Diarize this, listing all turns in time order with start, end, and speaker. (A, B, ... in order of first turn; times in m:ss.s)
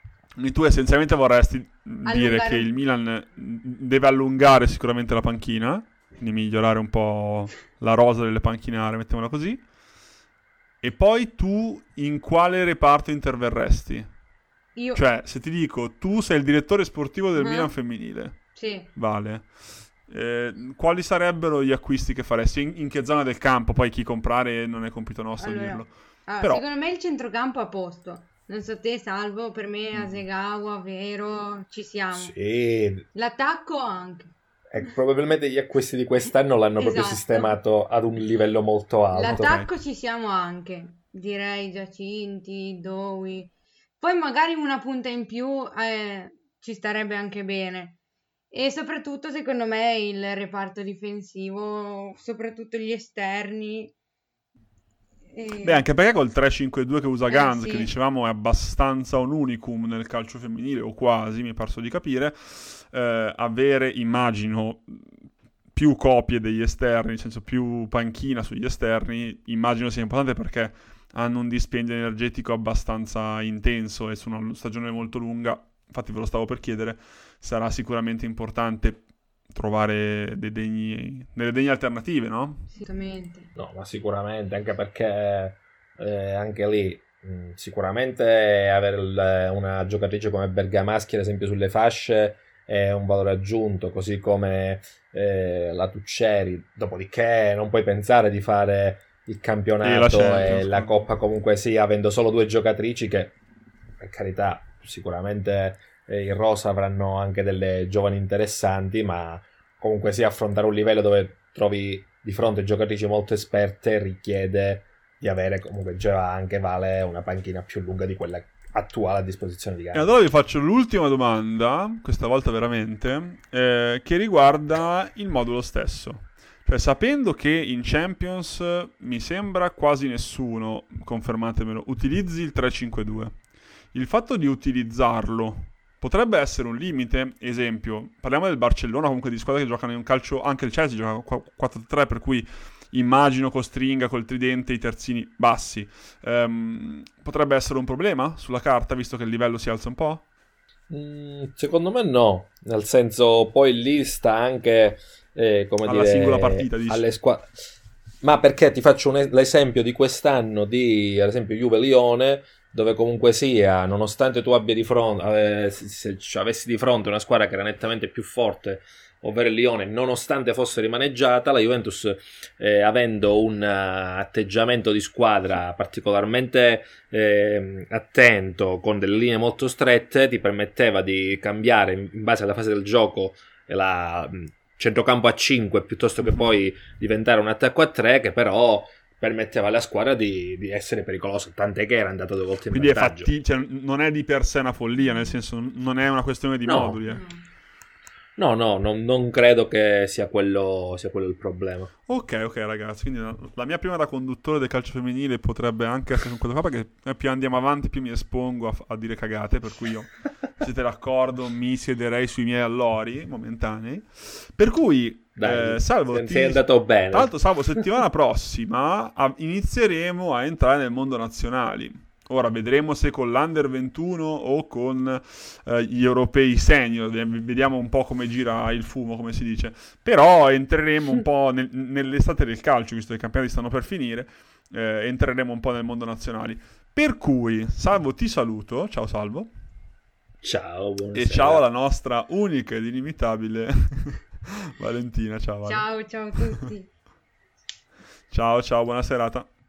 0:00.4-0:09.6 A
0:02.1-0:02.7 B
0:10.8-0:14.1 A
0:14.8-0:15.0 B
0:14.9-0:19.5 A
0:17.4-0:17.7 B
0:18.6-0:18.9 B
0:20.1-0:26.6 A
0:25.4-0:32.3 B
0:29.9-0:30.2 A
0:32.1-0:33.1 C
0:33.1-0:34.3 B
0:34.7-0:39.5 C
0:36.8-0:37.5 B
0:39.1-0:48.0 B
0:39.3-0:39.7 A
0:48.5-0:53.9 B
0:55.3-0:55.8 B
0:55.6-1:05.1 A
0:57.3-0:57.9 B
1:05.7-1:22.7 A
1:22.7-1:23.5 B
1:23.6-1:43.4 C
1:39.8-1:41.0 A
1:44.0-2:00.1 C
1:59.9-2:13.4 A
2:13.9-2:30.2 A
2:30.9-2:37.5 C
2:35.8-2:37.1 A
2:38.2-3:13.3 C
3:12.7-3:17.2 A
3:16.7-3:17.0 C
3:17.1-3:17.4 B
3:18.4-3:21.9 C
3:22.1-3:59.5 A
3:35.4-3:37.4 C
4:00.4-4:01.6 C
4:01.1-4:06.7 A
4:05.7-4:06.9 B
4:08.3-4:09.5 A